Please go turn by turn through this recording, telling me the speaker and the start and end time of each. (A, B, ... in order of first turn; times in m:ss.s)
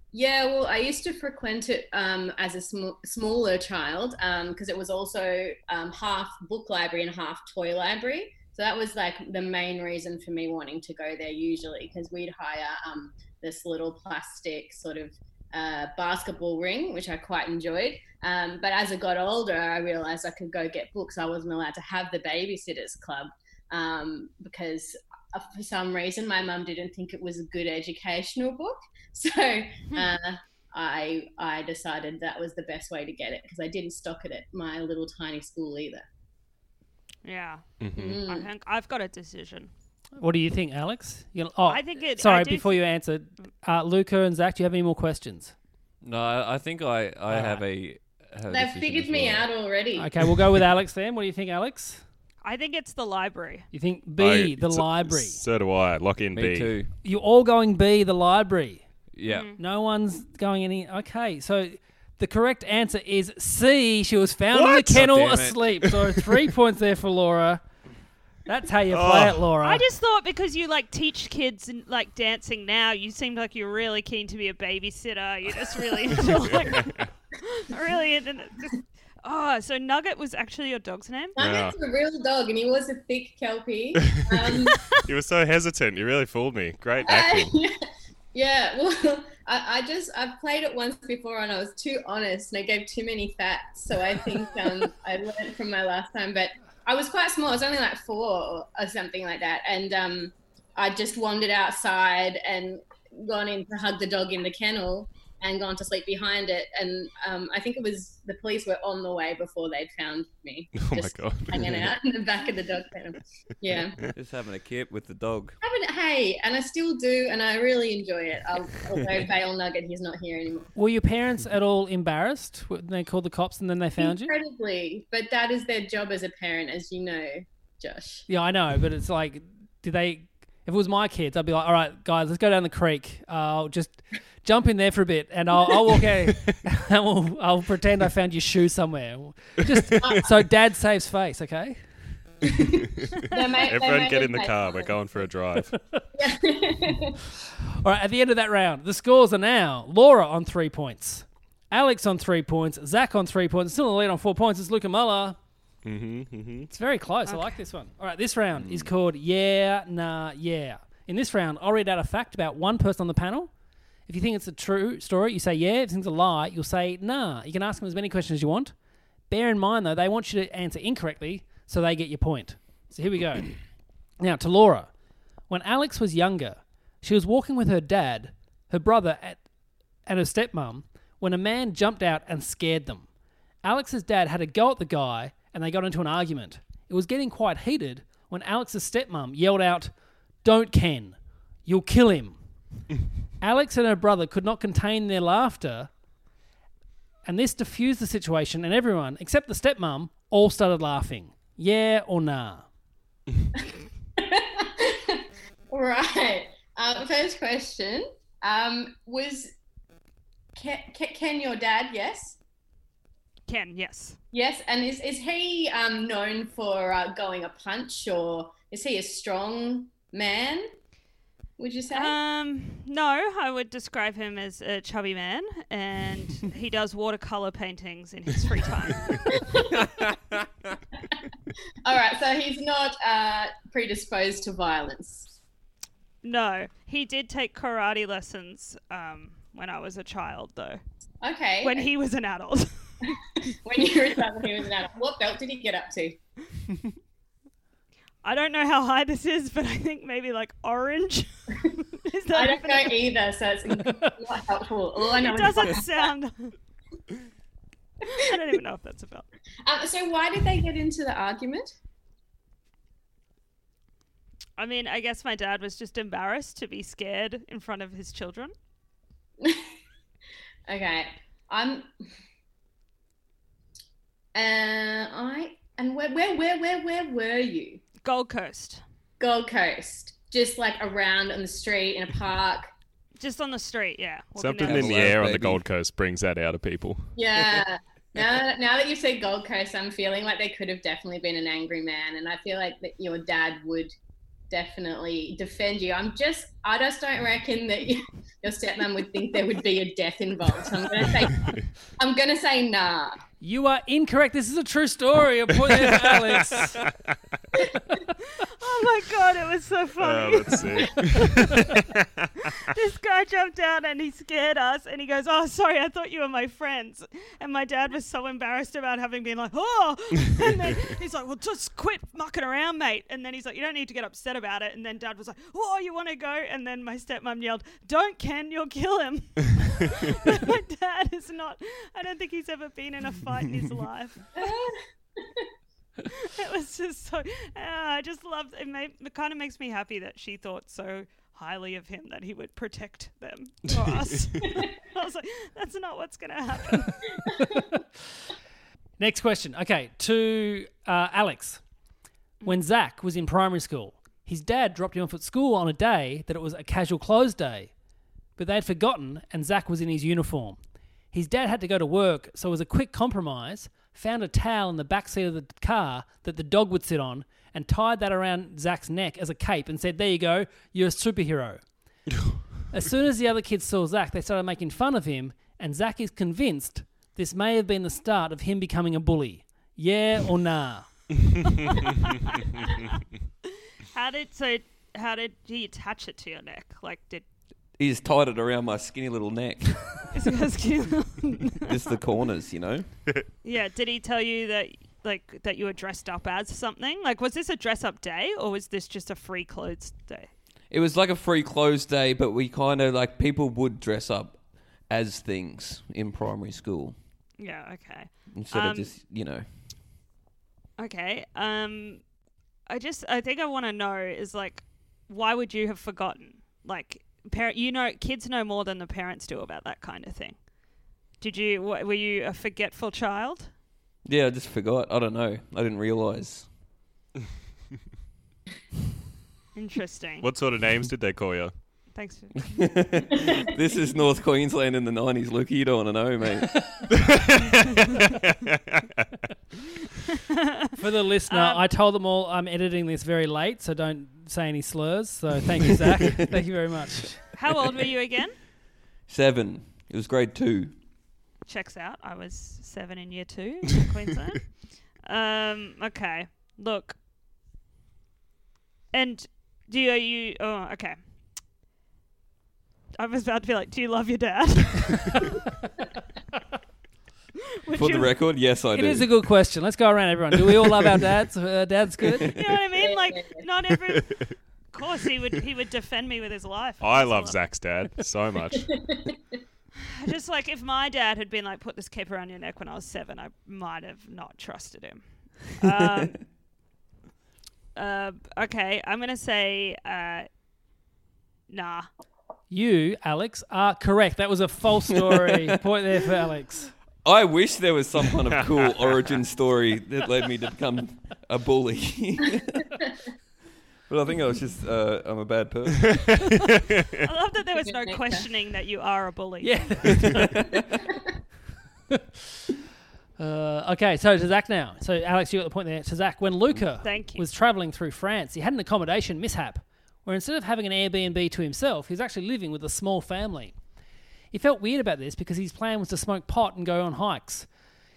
0:00.1-0:36.0 A
0:37.2-0:37.6 B
0:37.8-0:38.2 C
0:38.0-0:38.5 A
0:38.2-0:39.7 B
0:40.2-0:45.5 D
0:41.7-0:42.8 B
0:46.0-0:49.5 E
0:47.3-0:47.6 D
0:48.5-0:50.1 A
0:50.0-0:52.0 D
0:52.4-0:53.7 B
0:53.7-0:55.4 D
0:54.2-0:56.7 C
0:56.3-0:56.9 E
0:57.0-0:58.8 D
0:59.1-0:59.5 E
0:59.3-0:59.6 B
0:59.6-1:07.6 D
1:04.6-1:05.0 C
1:04.9-1:05.6 E
1:08.5-1:09.8 D
1:08.9-1:09.5 C
1:09.6-1:21.4 B
1:16.7-1:17.1 C
1:21.4-1:25.0 A
1:21.4-1:21.8 C
1:24.0-1:27.6 C
1:27.0-1:27.8 A
1:28.3-1:54.0 A
1:50.8-1:51.9 C
1:54.1-1:55.6 E
1:55.6-2:00.7 A
2:00.8-2:04.3 D
2:04.0-2:08.3 A
2:08.3-2:21.8 D
2:19.9-2:20.2 C
2:20.0-2:20.3 A
2:22.5-2:24.9 A
2:23.6-2:25.7 C
2:26.2-2:27.2 A
2:27.8-2:35.4 D
2:35.8-2:36.7 C
2:36.7-2:43.5 D
2:37.3-2:37.5 B
2:38.6-2:38.9 E
2:44.1-2:48.7 D
2:49.3-2:53.5 D
2:54.2-2:54.9 D
2:55.5-2:59.4 D
3:00.1-3:03.1 D
3:03.6-3:09.9 D
3:10.4-3:12.4 D
3:13.4-3:15.9 D
3:17.2-3:22.6 D
3:24.2-3:29.5 A
3:30.6-3:32.4 A
3:33.5-3:34.2 B
3:34.3-3:40.7 A
3:41.6-3:42.2 A
3:41.9-3:49.2 B
3:49.3-3:49.8 A
3:49.8-3:50.5 E
3:51.8-3:55.3 A
3:56.2-4:00.8 B
4:01.2-4:01.9 A
4:01.6-4:02.7 B
4:03.6-4:06.2 A
4:08.2-4:13.0 B
4:12.3-4:16.1 A
4:15.2-4:16.5 B
4:18.1-4:19.3 B
4:19.6-4:21.7 A
4:24.6-4:28.5 B
4:30.7-4:31.9 A
4:34.3-4:37.8 A
4:38.0-4:38.8 B
4:39.2-4:42.7 A
4:43.2-4:45.2 B
4:44.4-4:47.6 C
4:44.6-4:45.6 E
4:47.2-4:53.9 A
4:54.5-5:03.2 A
5:03.4-5:06.7 D
5:05.9-5:07.1 C
5:08.4-5:11.7 B
5:10.0-5:12.4 C
5:12.4-5:34.5 B
5:34.4-5:35.5 A
5:36.1-5:47.1 B
5:44.4-5:44.7 A
5:47.4-5:47.8 D
5:49.0-5:51.6 D
5:52.4-5:57.7 D
5:58.4-6:00.6 D
6:01.1-6:11.6 D
6:12.7-6:20.9 D
6:23.9-6:27.2 B
6:27.8-6:29.9 E
6:30.1-6:32.0 B
6:31.7-6:32.9 E
6:33.4-6:40.3 B
6:40.7-6:47.0 E
6:47.4-6:48.9 B
6:48.3-6:49.5 E
6:50.8-6:52.0 B
6:52.7-7:00.4 B
7:01.2-7:03.5 B
7:04.0-7:06.5 E
7:09.6-7:10.3 B
7:10.2-7:11.5 C
7:12.0-7:12.8 B
7:12.4-7:16.8 E
7:16.9-7:18.8 C
7:20.8-7:27.2 D
7:21.3-7:21.6 B
7:27.3-7:28.4 B
7:29.1-7:30.7 E
7:31.5-7:34.5 B
7:35.1-7:37.0 B
7:38.9-7:41.0 B
7:43.0-7:45.4 B
7:47.6-7:48.1 B
7:47.7-7:49.1 E
7:48.7-7:52.3 D
7:52.3-7:57.4 B
7:52.8-7:53.4 A
7:53.9-7:54.3 C
7:56.8-7:58.7 C
7:58.6-7:59.4 A
7:59.9-8:06.2 B
8:07.8-8:10.3 B
8:11.5-8:11.9 B
8:12.5-8:16.7 D
8:15.1-8:15.5 E
8:17.0-8:22.5 E
8:18.1-8:18.9 C
8:23.9-8:26.0 E
8:25.8-8:27.1 C
8:27.0-8:30.1 B
8:27.6-8:28.2 A
8:29.4-8:30.5 D
8:29.9-8:30.5 E
8:33.2-8:43.5 D
8:36.8-8:37.2 B
8:44.3-8:47.5 D